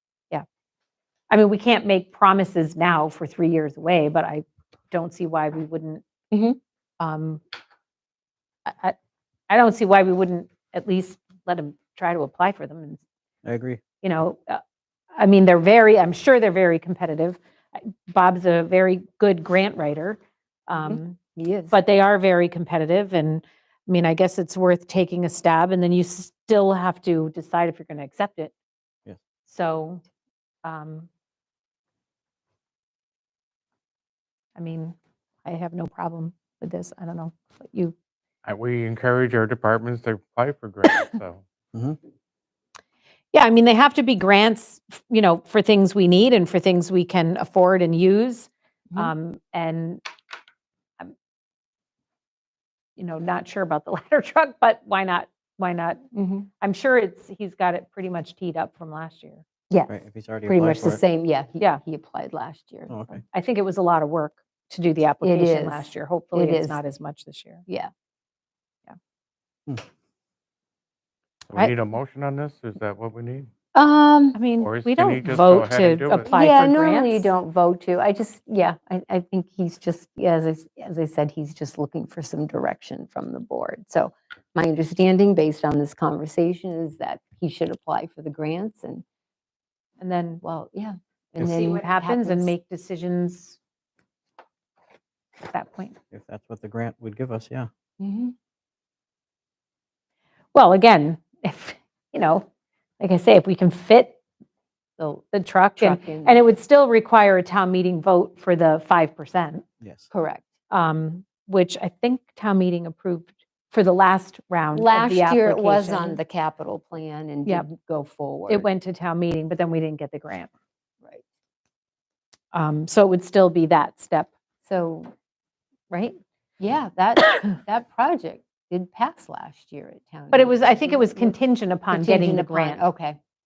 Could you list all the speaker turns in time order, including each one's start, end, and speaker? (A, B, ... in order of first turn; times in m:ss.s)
0:01.3-0:06.0 A
0:06.3-0:06.6 B
0:07.0-0:07.4 A
0:08.6-0:08.9 A
0:09.5-0:13.0 A
0:13.4-0:13.8 C
0:14.0-0:14.6 A
0:15.2-0:21.2 A
0:20.7-0:21.8 B
0:21.7-0:28.5 A
0:29.4-0:30.0 A
0:30.6-0:31.1 A
0:34.6-0:37.9 A
0:38.4-0:41.4 D
0:43.3-0:50.0 A
0:53.0-0:56.0 A
0:56.1-0:56.5 B
0:56.6-0:59.4 A
0:59.7-1:03.0 B
0:59.9-1:01.0 C
1:02.9-1:03.2 C
1:03.3-1:07.6 A
1:05.2-1:06.8 B
1:11.5-1:13.5 D
1:13.7-1:14.4 B
1:14.3-1:17.3 A
1:14.6-1:16.3 D
1:16.3-1:29.0 B
1:30.0-1:30.4 A
1:30.4-1:32.5 B
1:31.4-1:33.6 A
1:35.5-1:36.0 A
1:36.1-1:37.7 C
1:38.0-1:38.3 B
1:40.5-1:42.4 A
1:43.0-1:44.2 A
1:45.0-1:49.6 A
1:45.8-1:46.4 B
1:49.8-1:50.1 C
1:50.1-1:50.5 B
1:50.7-1:56.2 A
1:54.7-1:58.7 B
1:58.5-2:00.5 A
2:02.5-2:04.3 A
2:04.6-2:05.1 B
2:05.9-2:11.4 B
2:10.3-2:12.8 A
2:11.9-2:13.2 B